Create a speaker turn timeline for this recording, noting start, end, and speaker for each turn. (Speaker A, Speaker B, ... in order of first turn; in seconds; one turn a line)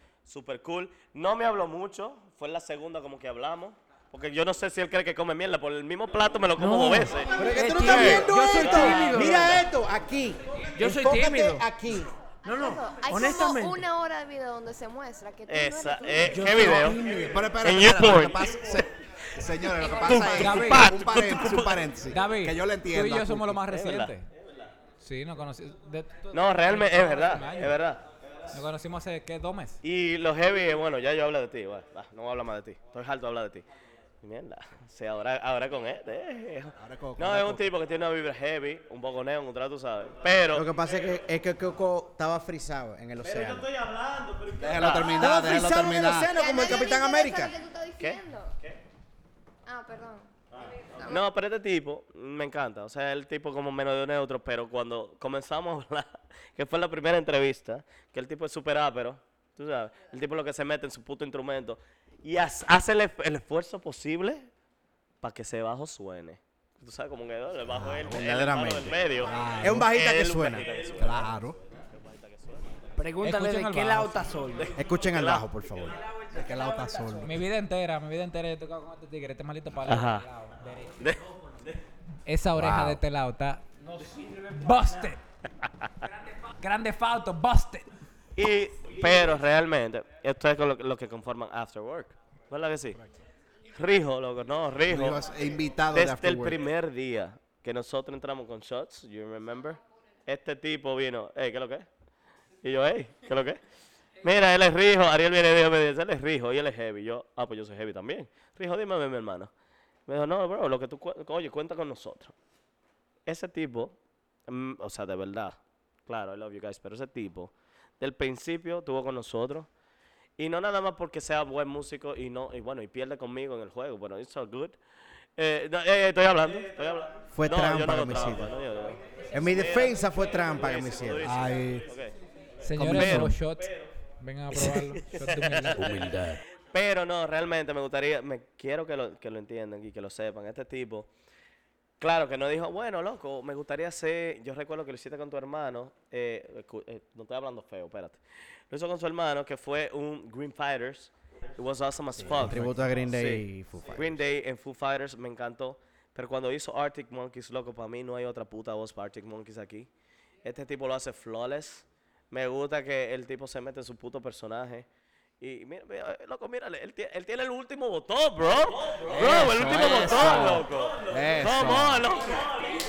Speaker A: 0.3-9.3
Speaker B: 6.6-9.7
Speaker C: 7.3-7.7
Speaker D: 7.4-12.1
Speaker C: 8.4-8.8
Speaker B: 10.8-11.7
Speaker C: 12.4-16.6
Speaker B: 12.4-13.8
Speaker A: 15.5-18.8
Speaker B: 16.3-17.5
Speaker E: 17.2-23.6
Speaker C: 19.7-20.5
Speaker A: 19.9-21.9
Speaker F: 20.3-20.9
Speaker F: 22.1-24.3
Speaker A: 23.7-24.2
Speaker F: 25.0-27.8
Speaker A: 26.3-28.0
Speaker F: 28.5-29.8
Speaker A: 29.8-33.7
Speaker A: 34.2-40.7
Speaker E: 36.8-37.7
Speaker D: 40.5-43.7
Speaker E: 44.6-46.4
Speaker A: 44.8-45.1
Speaker D: 45.2-47.5
Speaker C: 46.3-48.5
Speaker C: 49.7-51.3
Speaker A: 51.0-64.5
Speaker A: 65.2-72.7
Speaker E: 67.8-68.2
Speaker D: 67.9-69.1
Speaker E: 69.2-69.9
Speaker D: 69.6-70.7
Speaker E: 71.0-71.6
Speaker B: 73.0-74.8
Speaker F: 73.2-74.3
Speaker A: 74.6-75.5
Speaker D: 74.8-76.0
Speaker B: 76.1-77.3
Speaker E: 76.3-77.4
Speaker F: 77.2-81.0
Speaker A: 79.8-80.3
Speaker F: 82.3-83.7
Speaker D: 82.6-83.0
Speaker B: 83.8-84.7
Speaker F: 84.6-85.2
Speaker F: 86.6-87.9
Speaker A: 88.4-93.0
Speaker A: 93.7-95.2
Speaker E: 94.9-96.6
Speaker A: 95.9-101.9
Speaker A: 102.6-103.6
Speaker A: 104.2-109.5
Speaker A: 110.1-112.3
Speaker A: 113.3-114.0
Speaker A: 114.5-119.7
Speaker A: 120.4-124.8
Speaker A: 125.4-132.2
Speaker D: 127.3-128.6
Speaker D: 129.3-131.3
Speaker E: 131.2-131.9
Speaker F: 132.6-133.7
Speaker A: 132.8-133.4
Speaker E: 132.8-133.2
Speaker F: 134.2-136.1
Speaker A: 134.7-141.1
Speaker D: 135.9-136.4
Speaker A: 142.0-159.9
Speaker D: 152.2-154.2
Speaker A: 160.4-164.9
Speaker A: 165.4-172.5
Speaker E: 169.1-172.0